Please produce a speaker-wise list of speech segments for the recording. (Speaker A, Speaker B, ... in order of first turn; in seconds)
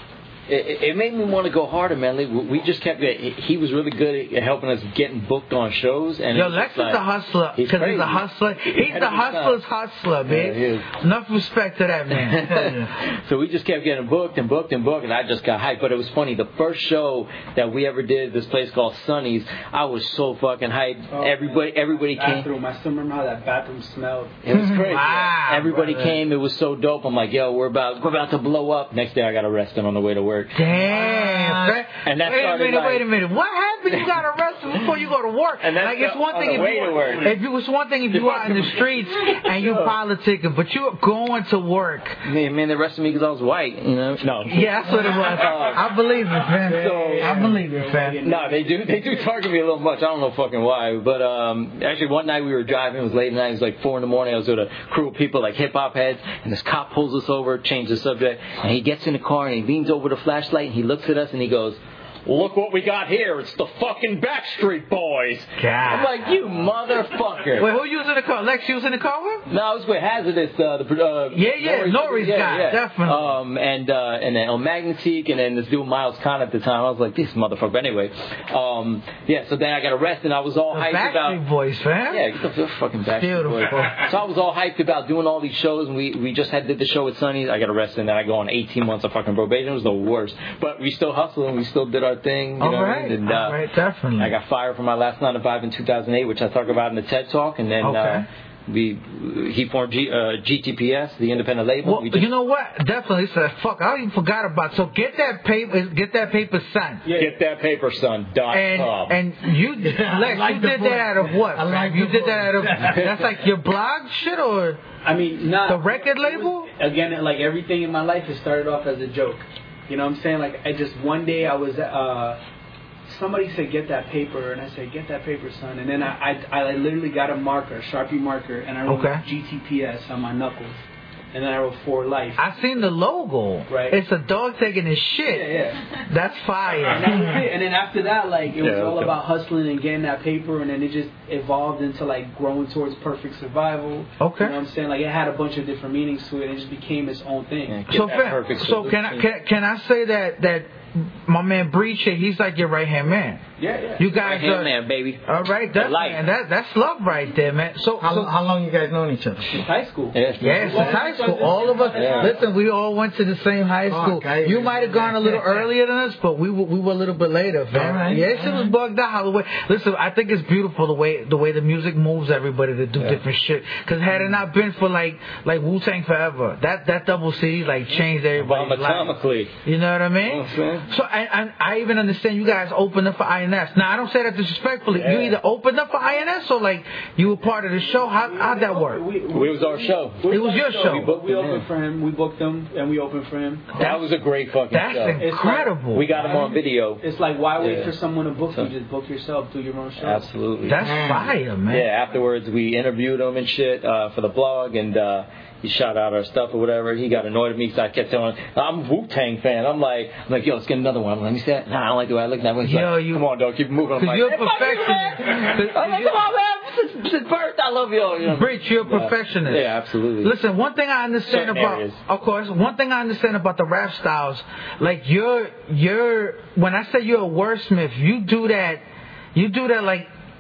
Speaker A: 0.5-7.0, 7.6-9.6, 10.3-10.9, 12.2-22.5, 24.4-30.6, 32.0-33.1, 35.6-37.4, 38.1-40.0, 42.2-46.0, 46.6-47.4, 48.2-67.7, 69.5-81.4, 82.1-93.6, 94.2-102.3, 107.2-109.2, 138.6-139.2, 147.7-149.3, 154.2-155.2, 155.8-156.2, 160.1-161.0, 161.9-162.4, 178.4-179.5, 180.2-180.9, 184.9-185.4, 189.3-190.3, 190.8-191.7, 193.8-195.3, 195.9-197.0, 197.6-197.9, 200.0-201.1, 201.7-220.3, 221.3-222.0
Speaker B: 6.3-12.7, 24.5-26.1, 30.6-42.2, 44.5-48.2, 65.6-66.2, 67.6-69.5, 71.3-73.3, 80.7-82.2, 83.1-84.1, 92.6-94.3, 97.8-98.3, 101.8-107.0, 108.5-114.8, 115.7-116.7, 128.9-129.2, 132.4-137.3, 144.2-144.6, 147.9-153.4, 154.0-154.7, 155.2-158.3, 160.4-189.0, 190.3-191.1, 193.8-194.1, 194.7-196.1, 200.7-201.9, 212.6-213.3, 214.0-216.2, 218.2-228.8, 229.3-230.1
Speaker C: 12.5-12.9, 30.9-31.8, 109.8-113.1, 158.0-159.7, 163.9-165.6, 167.7-168.7, 200.8-201.3
Speaker D: 21.1-24.4, 46.6-48.9, 107.0-107.4, 115.0-122.4, 123.1-130.8, 131.3-132.4, 133.7-134.0, 135.2-135.8, 136.8-147.8, 153.6-154.1, 159.5-162.4, 187.7-193.7, 195.2-200.3